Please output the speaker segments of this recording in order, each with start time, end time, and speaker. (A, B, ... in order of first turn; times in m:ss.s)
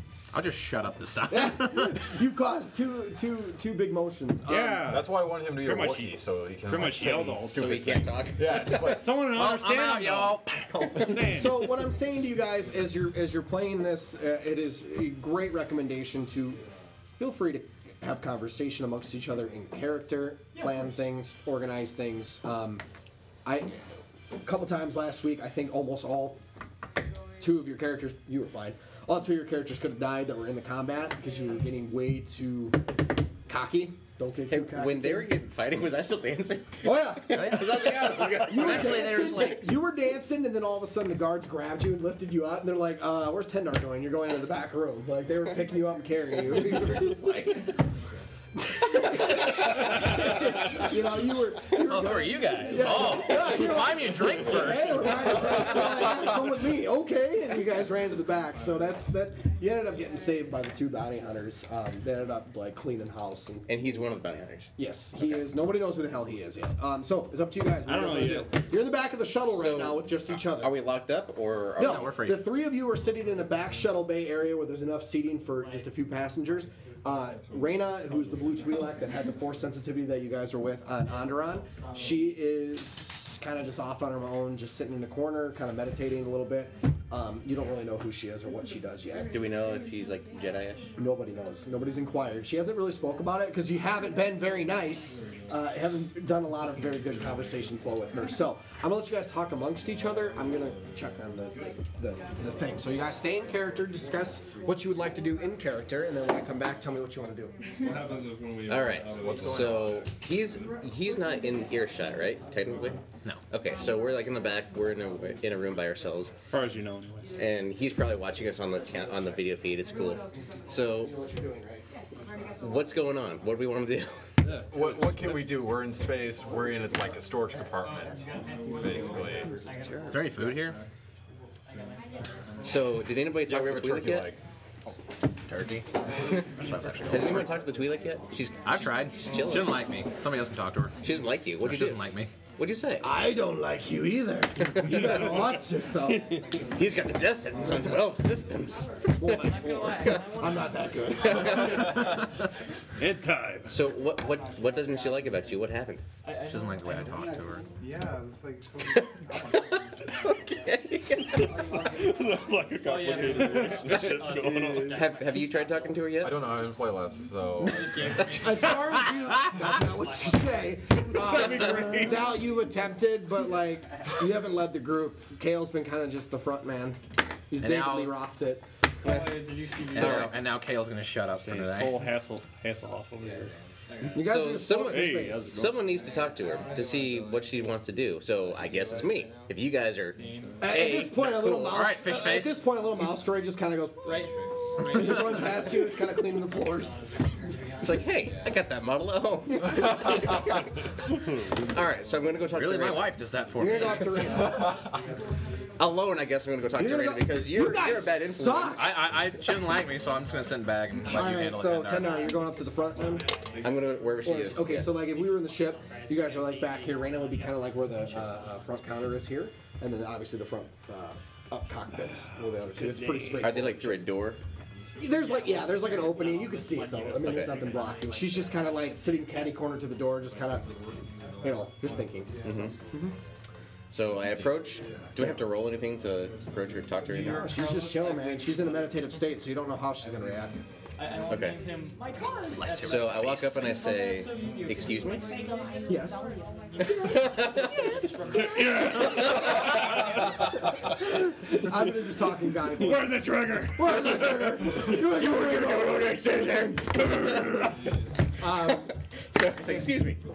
0:00.3-0:02.1 A
0:01.3-0:05.0 B
0:04.5-0:07.7 C
0:04.8-0:09.1 D
0:07.5-0:09.0 E
0:08.6-0:11.6 C
0:09.2-0:11.1 A
0:11.3-0:16.6 B
0:17.2-0:22.8 B
0:23.4-0:23.8 B
0:24.4-0:26.4 B
0:27.4-0:32.9 B
0:33.4-0:35.3 B
0:34.5-0:39.4 E
0:36.8-0:47.8 B
0:37.3-0:39.7 A
0:48.6-1:03.7 B
0:51.7-0:55.6 A
1:03.7-1:04.7 E
1:04.8-1:10.8 B
1:07.8-1:08.5 C
1:09.4-1:12.1 E
1:11.8-1:12.4 A
1:11.8-1:29.4 B
1:29.3-1:30.9 E
1:31.0-1:47.5 B
1:48.6-1:53.0 E
1:49.3-1:50.0 D
1:53.5-1:56.3 E
1:56.5-1:57.2 C
1:57.4-2:01.1 E
2:01.0-2:01.8 B
2:02.6-2:04.1 E
2:04.7-2:08.2 D
2:08.7-2:09.5 D
2:10.1-2:10.8 A
2:12.6-2:14.3 E
2:13.4-2:14.4 D
2:15.5-2:15.8 A
2:16.6-2:17.6 A
2:17.1-2:19.8 E
2:18.6-2:21.0 A
2:21.0-2:22.0 E
2:21.6-2:22.3 A
2:22.6-2:23.1 E
2:23.0-2:26.3 B
2:26.8-2:29.4 E
2:29.2-2:32.0 B
2:33.0-2:33.7 C
2:33.7-2:36.0 E
2:36.4-2:37.6 A
2:40.6-2:41.6 E
2:41.8-2:45.0 C
2:45.0-2:46.3 E
2:46.2-2:48.4 D
2:48.4-2:57.0 B
2:51.2-2:52.3 C
2:57.5-3:00.1 B
2:57.6-2:58.1 A
2:59.9-3:02.0 A
3:00.0-3:00.3 E
3:01.4-3:03.5 C
3:04.1-3:05.7 B
3:04.2-3:11.2 E
3:04.8-3:05.8 C
3:10.6-3:17.0 B
3:11.2-3:12.6 A
3:17.8-3:20.4 E
3:21.7-3:23.2 E
3:22.5-3:24.4 A
3:23.5-3:24.6 B
3:25.8-3:28.9 E
3:26.7-3:28.9 B
3:28.8-3:32.3 A
3:31.1-3:33.3 B
3:33.6-3:35.0 E
3:34.2-3:44.0 B
3:42.6-3:43.6 C
3:43.4-3:44.4 E
3:45.0-3:50.7 B
3:51.4-3:52.3 B
3:52.4-3:52.7 E
3:52.9-3:53.1 B
3:53.9-3:57.5 E
3:57.2-4:00.6 B
4:01.3-4:01.6 E
4:02.5-4:03.3 A
4:02.8-4:05.3 E
4:05.9-4:06.2 B
4:08.4-4:08.9 C
4:11.6-4:13.2 B
4:12.8-4:13.9 C
4:13.7-4:16.2 B
4:15.2-4:17.6 E
4:18.4-4:18.9 B
4:18.6-4:20.2 E